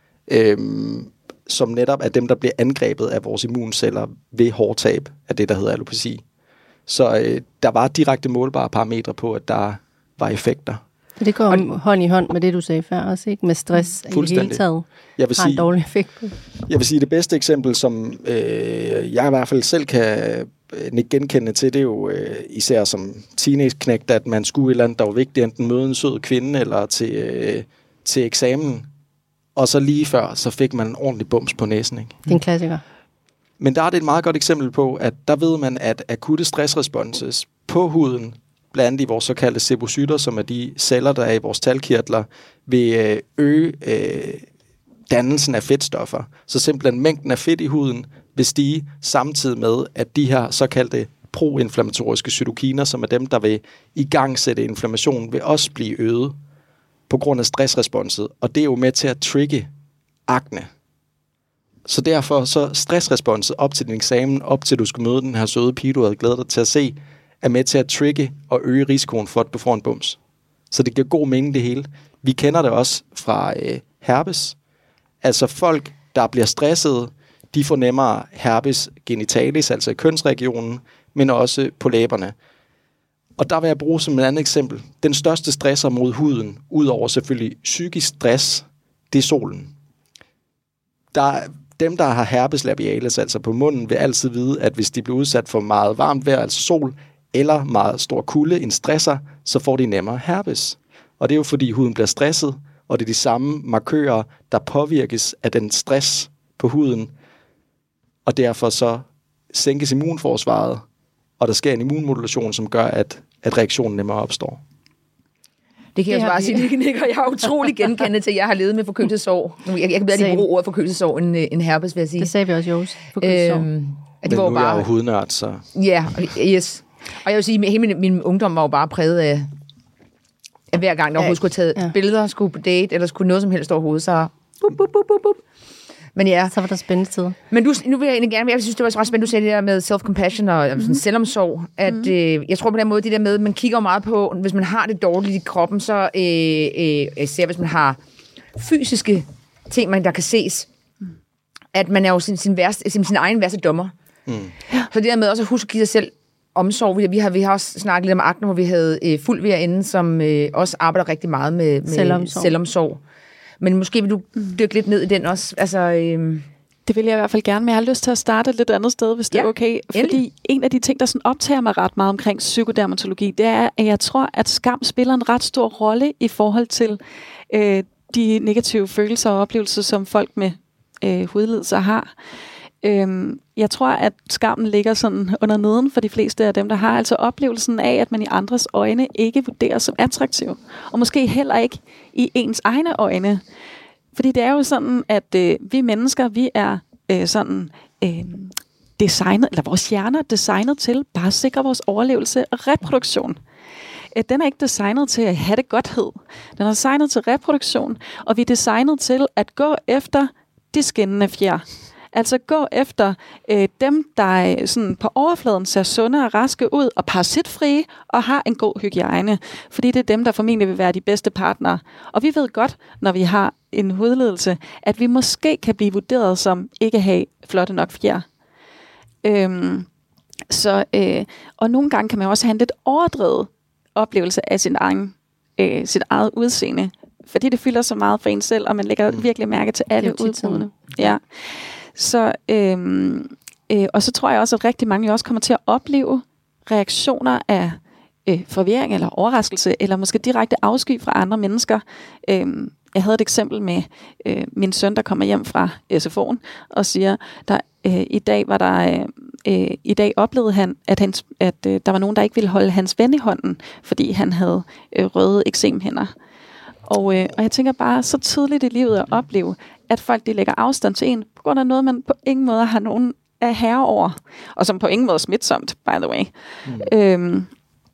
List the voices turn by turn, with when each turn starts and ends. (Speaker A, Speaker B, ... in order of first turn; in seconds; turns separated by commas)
Speaker A: 0.3-6.2, Speaker A: 6.9-10.8, Speaker B: 11.2-14.8, Speaker A: 14.1-14.6, Speaker A: 15.2-15.7, Speaker B: 15.4-16.4, Speaker A: 16.6-28.9, Speaker A: 29.6-32.2, Speaker B: 32.3-32.8, Speaker A: 33.6-44.5, Speaker A: 45.1-56.4, Speaker A: 57.1-59.7, Speaker A: 60.3-60.7, Speaker A: 61.9-70.2, Speaker A: 70.7-74.6, Speaker A: 75.2-82.3, Speaker A: 83.4-89.7, Speaker A: 91.1-107.1, Speaker A: 108.3-110.8, Speaker A: 111.4-114.6, Speaker C: 116.0-122.3, Speaker B: 116.1-116.7, Speaker B: 120.1-120.5, Speaker B: 122.2-123.7, Speaker C: 123.2-124.9, Speaker A: 124.2-125.7, Speaker C: 125.7-129.5, Speaker C: 130.7-135.4, Speaker B: 131.2-131.9, Speaker C: 136.2-136.5, Speaker B: 136.5-137.4, Speaker C: 137.5-148.0, Speaker C: 148.6-150.7, Speaker C: 151.7-153.9, Speaker A: 154.3-154.5, Speaker C: 154.9-163.0, Speaker B: 161.9-162.5, Speaker C: 163.6-166.4, Speaker D: 166.9-182.1, Speaker C: 169.3-170.2, Speaker D: 182.8-193.4, Speaker D: 194.1-203.4, Speaker D: 204.2-228.3, Speaker D: 229.2-229.9, Speaker D: 230.5-266.1, Speaker B: 240.0-240.7, Speaker D: 266.9-277.5, Speaker A: 276.7-276.9